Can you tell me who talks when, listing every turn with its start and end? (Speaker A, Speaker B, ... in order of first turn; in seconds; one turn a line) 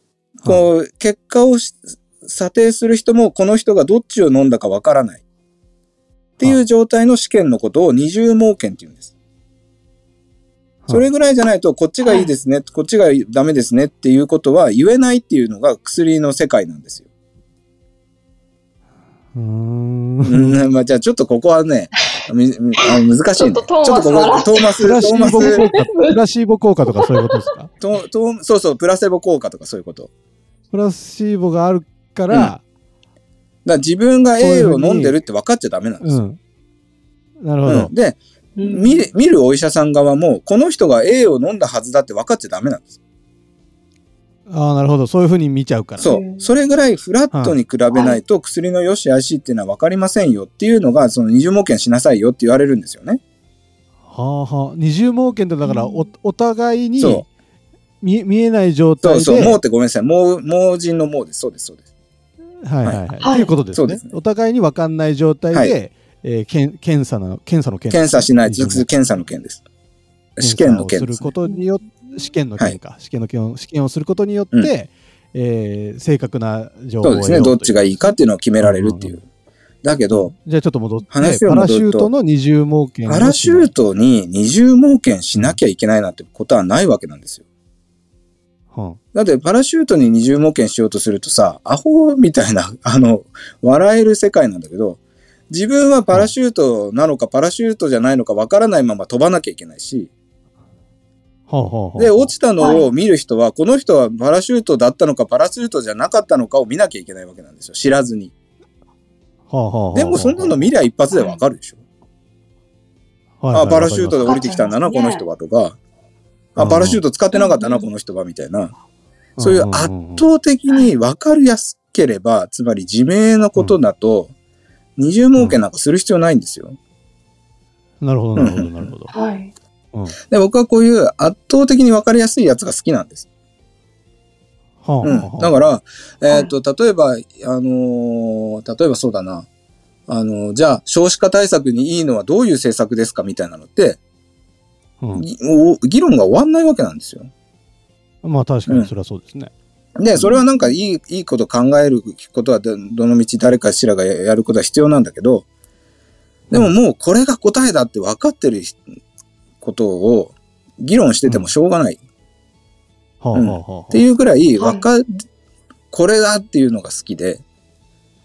Speaker A: 0.4-5.2
Speaker A: 6.4-9.1
Speaker A: 10.9-17.1
Speaker B: 12.0-12.3
Speaker C: 19.3-20.6
Speaker A: 20.2-25.6
Speaker B: 23.4-26.2
Speaker C: 24.8-27.7
Speaker B: 26.9-27.4
Speaker A: 27.8-30.1
Speaker C: 30.7-32.6
Speaker A: 33.6-36.2
Speaker C: 34.4-35.2
Speaker C: 36.0-36.4
Speaker C: 37.4-37.9
Speaker A: 37.6-42.9
Speaker B: 38.6-39.0
Speaker C: 44.5-46.1
Speaker A: 46.0-53.2
Speaker B: 46.0-46.5
Speaker C: 47.3-47.6
Speaker B: 47.9-48.2
Speaker C: 54.1-57.3
Speaker B: 55.6-56.1
Speaker A: 57.0-57.2
Speaker C: 58.0-59.6
Speaker A: 59.0-61.8
Speaker C: 62.6-69.1
Speaker B: 63.2-63.5
Speaker A: 63.7-64.1
Speaker A: 65.5-65.8
Speaker A: 67.9-69.6
Speaker A: 70.4-71.3
Speaker C: 70.4-79.2
Speaker A: 77.0-79.2
Speaker A: 79.8-80.3
Speaker C: 80.1-83.7
Speaker A: 81.1-82.1
Speaker A: 83.1-87.4
Speaker C: 85.3-85.6
Speaker C: 88.7-89.0
Speaker A: 89.1-100.1
Speaker C: 101.5-102.3
Speaker A: 102.0-108.3
Speaker B: 102.6-102.8
Speaker C: 109.5-110.6
Speaker A: 109.9-111.8
Speaker B: 111.1-111.4
Speaker C: 113.4-114.3
Speaker A: 113.5-115.8
Speaker B: 114.2-115.2
Speaker A: 116.5-118.7
Speaker C: 116.6-117.0
Speaker B: 117.3-117.9
Speaker C: 119.4-120.2
Speaker A: 119.4-124.3
Speaker A: 125.0-126.8
Speaker C: 125.3-125.6
Speaker C: 128.0-129.1
Speaker A: 128.3-128.9
Speaker B: 129.1-129.5
Speaker A: 130.3-133.2
Speaker C: 134.8-135.5
Speaker A: 135.0-139.5
Speaker A: 140.1-144.0
Speaker C: 145.0-145.2
Speaker A: 145.1-147.3
Speaker C: 148.2-149.5
Speaker A: 150.0-155.4
Speaker A: 156.5-158.8
Speaker A: 159.6-162.0
Speaker C: 163.2-164.1
Speaker A: 163.3-165.2
Speaker B: 164.6-164.8
Speaker A: 165.9-167.4